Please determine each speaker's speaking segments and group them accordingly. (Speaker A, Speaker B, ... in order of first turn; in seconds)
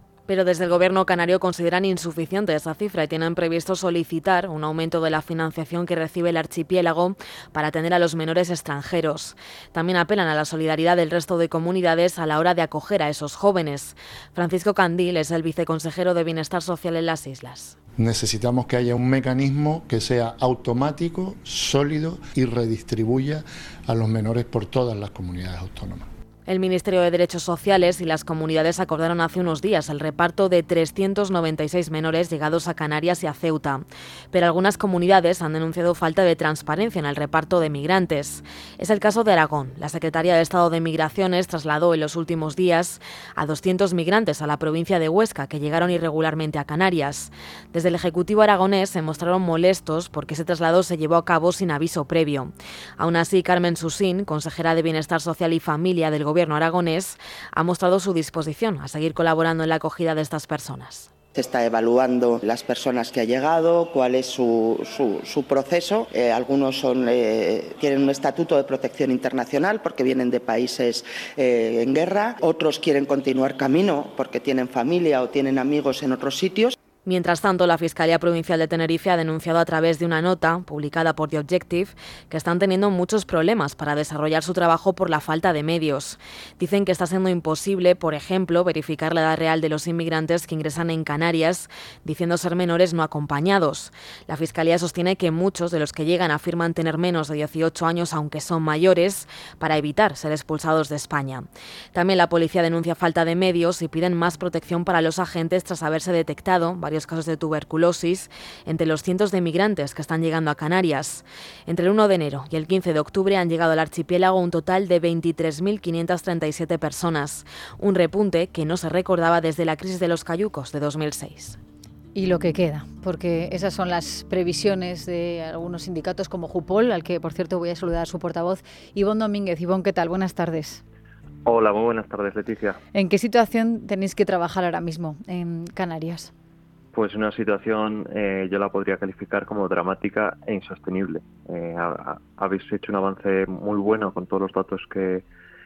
Speaker A: 0.3-17.8, 26.5-61.1, 77.0-121.6
Speaker B: 18.0-26.1
Speaker C: 61.3-76.8
Speaker D: 122.1-130.8, 132.9-136.3
Speaker E: 131.4-132.8, 136.9-145.2